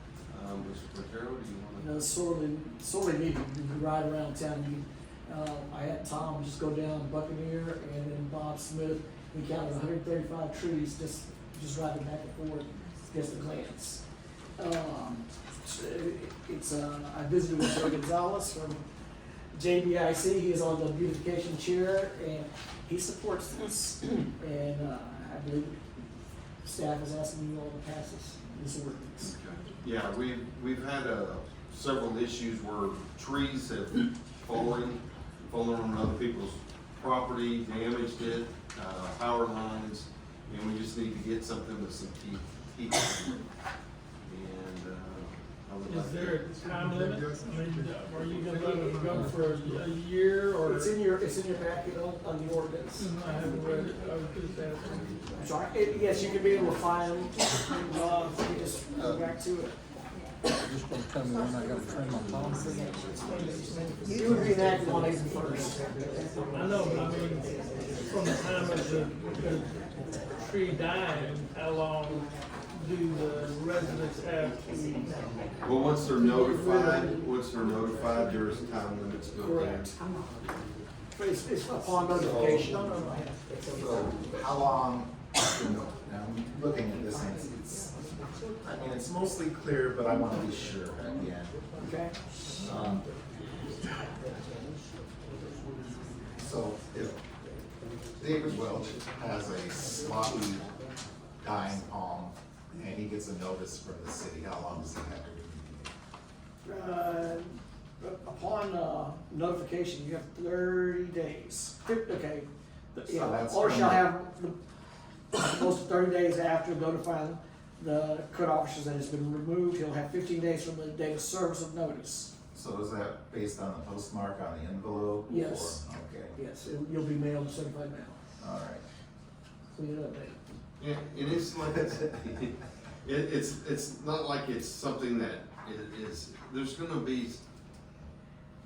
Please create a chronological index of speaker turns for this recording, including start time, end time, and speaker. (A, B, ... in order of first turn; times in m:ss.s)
0:00.3-0:02.0 A
0:01.8-0:14.0 B
0:14.6-0:18.8 B
0:19.5-0:25.8 B
0:26.6-0:29.3 B
0:29.2-0:43.5 A
0:44.2-0:47.8 A
0:45.8-0:50.9 C
0:50.6-0:53.1 B
0:53.0-0:55.2 C
0:55.4-0:59.8 B
1:00.6-1:02.9 D
1:03.3-1:04.2 C
1:04.1-1:06.1 B
1:06.5-1:07.5 C
1:08.0-1:09.7 C
1:10.4-1:14.6 C
1:14.7-1:15.2 B
1:15.6-1:19.9 A
1:16.2-1:17.3 B
1:19.4-1:19.9 B
1:21.2-1:23.3 B
1:22.2-1:22.8 A
1:23.7-1:28.0 E
1:28.6-1:31.5 E
1:31.8-1:32.1 B
1:32.6-1:33.1 E
1:36.4-1:37.2 E
1:38.2-1:40.7 E
1:41.4-1:45.9 E
1:46.6-1:54.6 B
1:53.1-1:54.1 E
1:55.3-2:02.3 B
2:02.5-2:06.4 E
2:05.3-2:08.2 B
2:08.4-2:08.8 E
2:09.7-2:10.4 B
2:10.8-2:17.4 A